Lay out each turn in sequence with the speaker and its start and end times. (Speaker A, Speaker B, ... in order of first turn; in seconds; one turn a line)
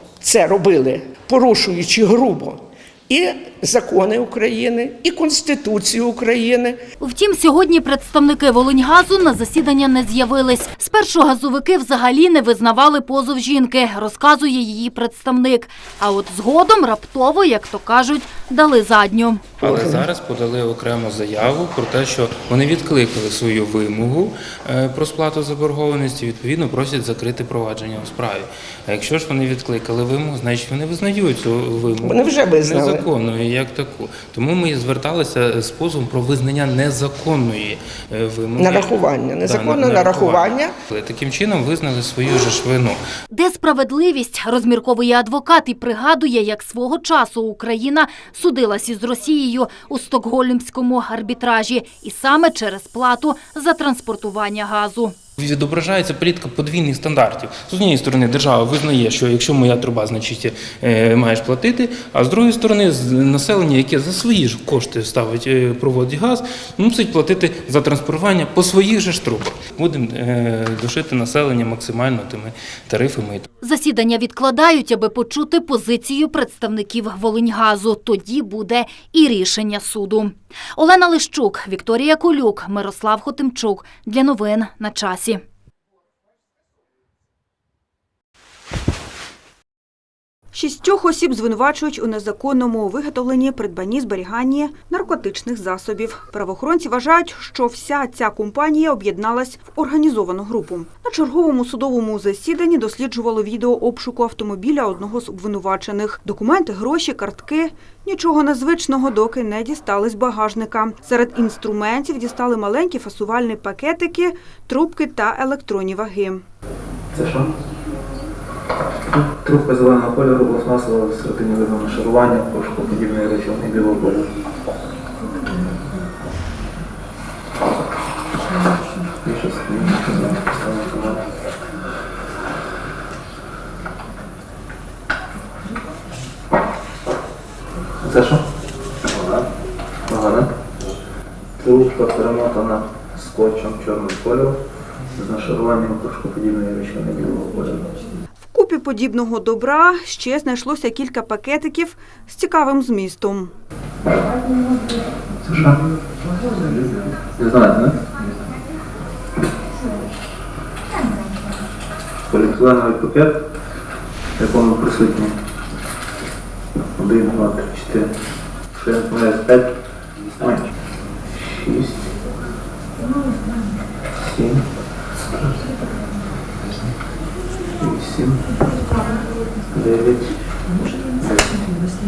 Speaker A: 0.2-6.8
Speaker B: 7.0-19.7
Speaker C: 19.6-43.0
Speaker A: 19.7-19.9
Speaker A: 32.0-33.0
Speaker A: 38.6-40.7
Speaker B: 43.3-55.1
Speaker C: 55.4-73.5
Speaker B: 73.6-85.4
Speaker D: 90.5-116.4
Speaker E: 117.1-117.5
Speaker E: 119.1-124.3
Speaker E: 129.2-131.3
Speaker E: 138.0-138.4
Speaker E: 139.1-139.5
Speaker E: 140.1-140.5
Speaker E: 141.6-144.6
Speaker E: 145.2-148.1
Speaker D: 148.4-153.5
Speaker E: 155.4-155.8
Speaker E: 156.6-158.0
Speaker E: 162.3-163.3
Speaker E: 164.4-165.4
Speaker E: 166.8-168.1
Speaker E: 168.7-169.7
Speaker E: 170.4-170.7
Speaker E: 171.4-172.1
Speaker E: 174.2-174.7
Speaker E: 175.3-175.7
Speaker E: 177.8-178.5
Speaker E: 179.7-180.3
Speaker E: 181.2-181.6